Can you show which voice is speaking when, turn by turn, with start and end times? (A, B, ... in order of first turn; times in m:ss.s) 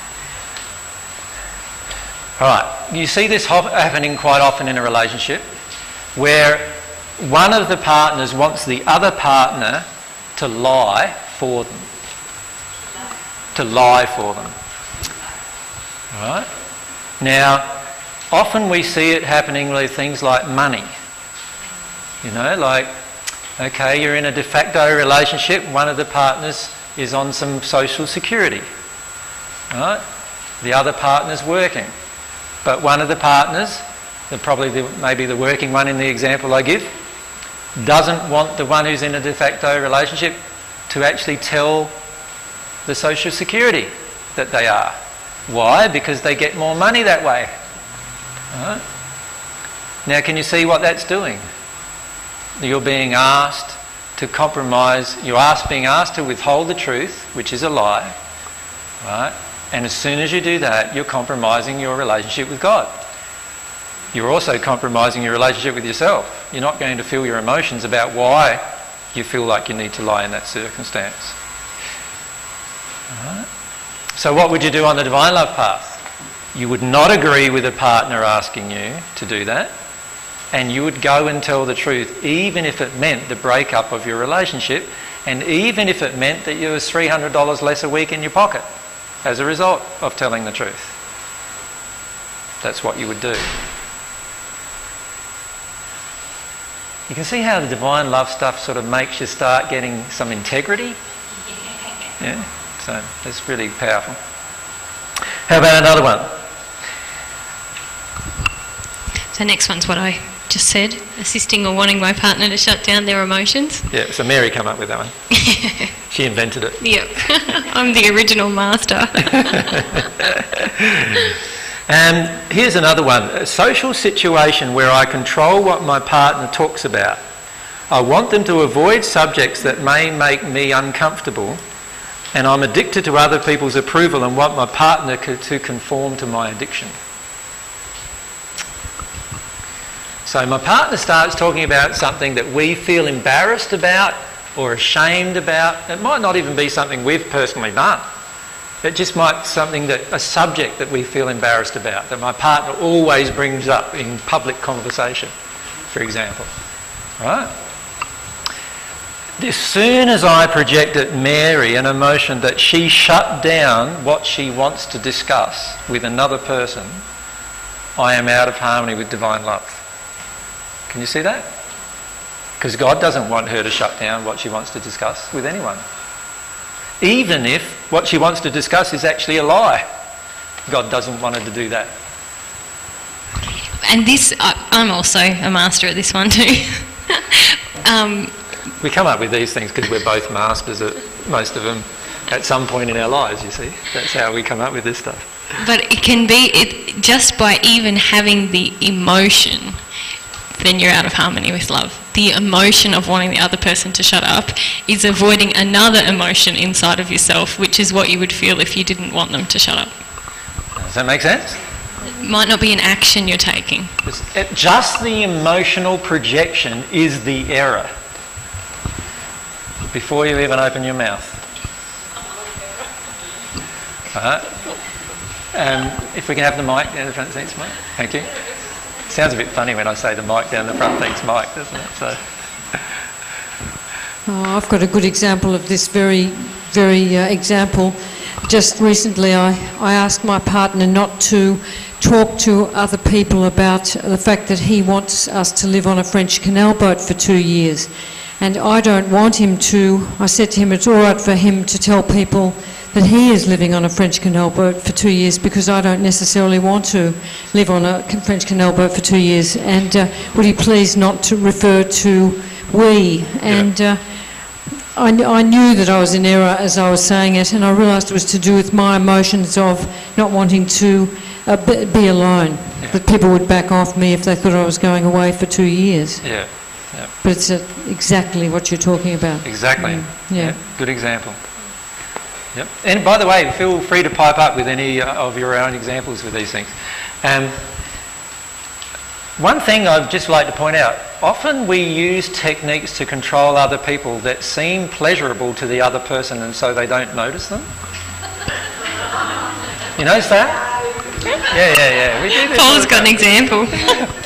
0:02.4-0:05.4 A
0:06.2-0:09.8 A
0:10.4-0:11.9 A
0:13.5-0:14.5 A
0:16.1-0:16.5 A
0:17.2-0:17.8 A
0:18.3-0:20.9 A
0:22.2-0:22.9 A
0:23.6-0:28.6 A
0:29.7-0:30.0 A
0:30.6-0:31.9 A
0:32.6-0:36.9 A
0:37.8-0:40.4 A
0:40.9-0:41.9 A
0:42.8-0:45.0 A
0:45.5-0:47.5 A
0:48.5-0:48.8 A
0:50.0-0:51.4 A
0:52.6-0:58.2 A
0:59.0-1:03.0 A
1:04.1-1:11.3 A
1:13.1-1:13.5 A
1:14.2-1:16.0 A
1:16.5-1:19.7 A
1:20.5-1:28.6 A
1:29.2-1:30.9 A
1:32.6-1:33.4 A
1:37.1-1:41.0 A
1:42.2-1:44.2 A
1:45.5-1:46.3 A
1:49.3-1:53.9 B
1:53.9-1:55.1 A
1:55.4-1:55.9 B
1:56.1-1:56.8 A
1:56.8-1:59.8 B
1:59.4-2:01.2 A
2:01.9-2:07.2 A
2:07.9-2:11.6 A
2:12.3-2:16.9 A
2:20.2-2:28.0 A
2:28.8-2:35.3 A
2:35.9-2:36.5 A
2:37.2-2:37.5 A
2:39.4-2:47.0 A
2:48.0-2:49.8 A
2:50.9-2:51.5 A
2:52.6-2:55.8 A
2:57.0-2:59.8 A
3:00.7-3:01.9 A
3:03.8-3:08.4 B
3:08.8-3:15.3 A
3:15.6-3:19.8 B
3:20.6-3:29.9 B
3:30.8-3:31.6 A
3:32.0-3:33.9 B
3:34.0-3:37.9 A
3:39.9-3:41.4 A
3:44.1-3:44.5 A
3:45.5-3:48.3 A
3:49.1-3:52.2 A
3:54.2-4:36.4 C
4:36.2-4:37.1 A
4:37.2-4:40.6 C
4:39.4-4:41.4 A
4:42.5-4:46.7 A
4:47.2-4:47.5 A
4:49.4-4:57.7 A
5:00.0-5:00.6 A
5:01.5-5:03.3 A
5:02.5-5:04.0 B